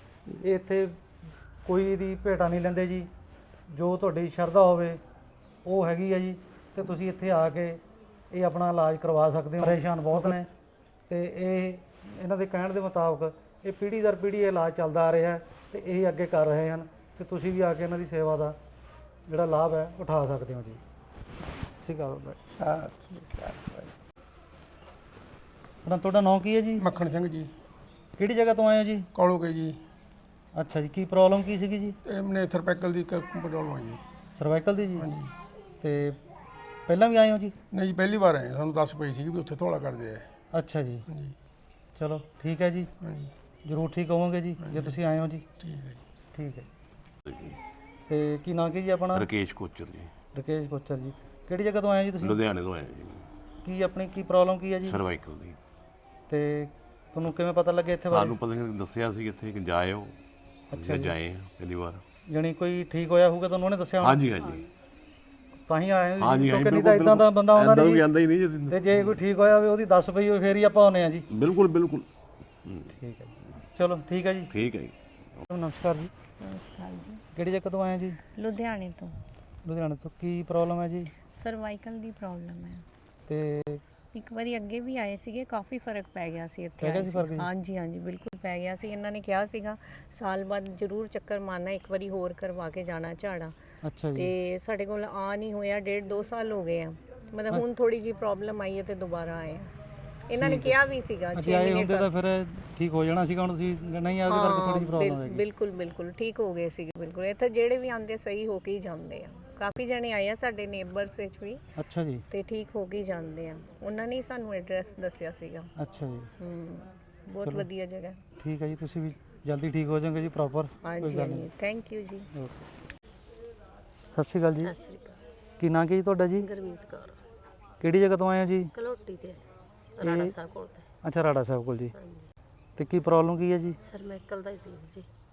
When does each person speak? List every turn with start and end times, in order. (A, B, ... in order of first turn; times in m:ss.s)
0:00.4-0:01.0 A
0:01.6-0:03.1 A
0:03.7-0:05.0 A
0:05.6-0:10.5 A
0:11.1-0:18.6 A
0:19.3-0:20.8 A
0:21.8-0:22.4 A
0:22.6-0:23.8 B
0:25.8-0:26.9 A
0:26.8-0:27.5 C
0:28.2-0:29.1 A
0:29.1-0:29.8 C
0:30.6-0:32.0 A
0:32.0-0:34.0 C
0:34.4-0:35.1 A
0:35.8-0:36.2 A
0:36.9-0:37.6 A
0:37.7-0:40.3 C
0:40.5-0:41.1 A
0:42.0-0:42.9 A
0:43.0-0:43.3 C
0:43.6-0:45.5 A
0:44.7-0:44.9 C
0:45.6-0:46.0 C
0:46.3-0:46.7 A
0:47.2-0:47.6 D
0:48.1-0:49.3 A
0:49.1-0:50.1 D
0:50.3-0:52.4 A
0:52.2-0:53.3 D
0:53.6-0:55.0 A
0:54.9-0:55.6 D
0:56.3-0:58.4 A
0:58.1-1:00.2 D
1:00.7-1:01.2 A
1:00.7-1:02.0 D
1:02.3-1:04.2 A
1:04.0-1:04.7 D
1:05.7-1:08.1 A
1:06.2-1:09.2 D
1:08.7-1:11.3 A
1:11.3-1:12.1 D
1:12.9-1:14.5 A
1:14.5-1:15.0 D
1:15.5-1:16.1 A
1:16.4-1:17.2 E
1:17.3-1:18.2 A
1:18.3-1:19.2 E
1:19.6-1:21.1 A
1:21.3-1:22.8 E
1:23.3-1:23.8 A
1:24.1-1:33.6 E
1:26.8-1:27.5 A
1:33.8-1:34.3 A
1:34.2-1:39.7 E
1:40.3-1:42.1 E
1:40.4-1:40.8 A
1:41.4-1:45.4 A
1:44.3-1:51.6 E
1:51.8-1:52.2 A
1:52.3-1:55.7 E
1:55.8-1:56.3 A
1:56.4-1:58.2 E
1:58.4-2:01.5 A
2:00.8-2:02.3 E
2:02.3-2:02.7 A
2:04.1-2:04.7 A
2:04.7-2:05.2 B
2:05.6-2:06.5 A
2:06.5-2:07.2 B
2:07.8-2:08.7 A
2:08.8-2:09.4 B
2:10.0-2:10.8 B
2:10.0-2:10.4 A
2:11.0-2:11.9 A
2:12.8-2:13.8 A
2:13.8-2:15.1 B